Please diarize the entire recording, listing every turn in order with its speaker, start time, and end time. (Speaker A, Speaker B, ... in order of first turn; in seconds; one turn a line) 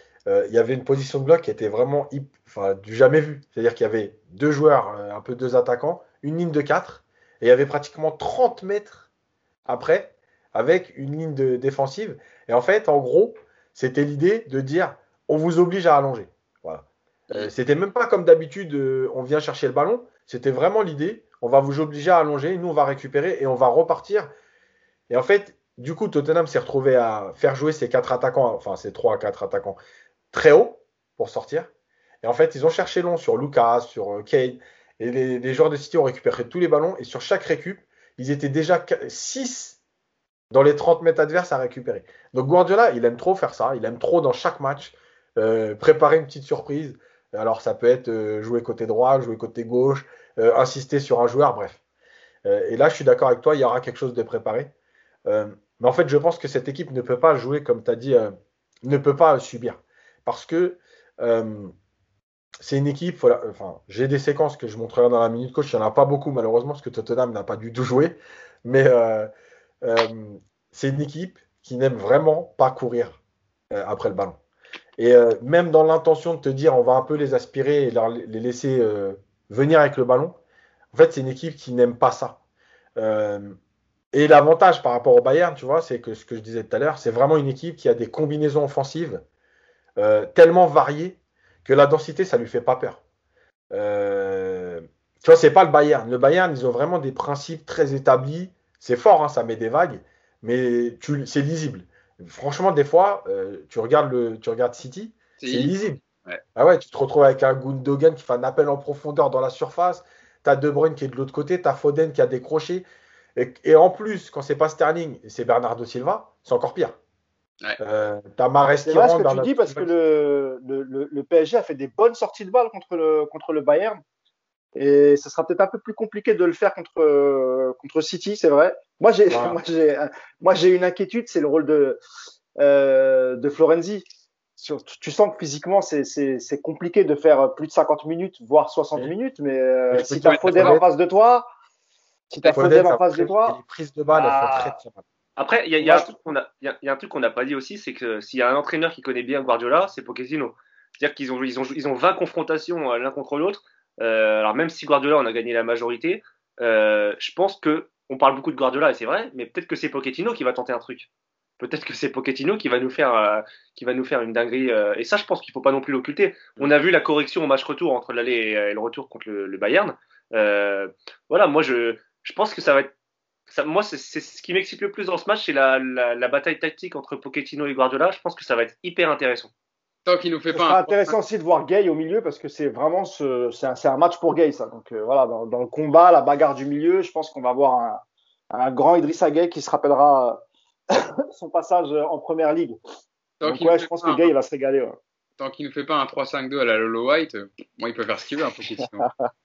Speaker A: 0.3-9.1
Speaker A: 9.7-24.3
Speaker A: 25.1-29.8
Speaker A: 30.3-31.7
Speaker A: 32.2-39.8
Speaker A: 40.5-51.8
Speaker A: 52.5-54.7
Speaker A: 55.3-61.7
Speaker A: 62.6-69.3
Speaker A: 69.8-73.2
Speaker A: 73.7-74.4
Speaker A: 75.0-80.4
Speaker A: 80.9-82.4
Speaker A: 83.0-83.6
Speaker A: 84.1-89.2
Speaker A: 90.0-93.0
Speaker A: 93.7-106.0
Speaker B: 105.4-105.8
Speaker A: 106.6-117.0
Speaker A: 117.8-119.9
Speaker C: 118.8-124.0
Speaker C: 124.8-132.0
Speaker A: 129.3-129.6
Speaker C: 132.6-134.1
Speaker C: 134.6-141.5
Speaker A: 139.9-140.8
Speaker B: 140.2-140.8
Speaker C: 142.3-143.6
Speaker A: 142.4-145.0
Speaker C: 144.1-144.8
Speaker D: 145.4-161.1
Speaker C: 145.8-146.1
Speaker D: 161.6-172.9
Speaker D: 173.5-179.5
Speaker B: 180.1-181.1
Speaker C: 180.5-192.8
Speaker B: 193.4-194.3
Speaker C: 193.4-195.0
Speaker B: 195.4-199.1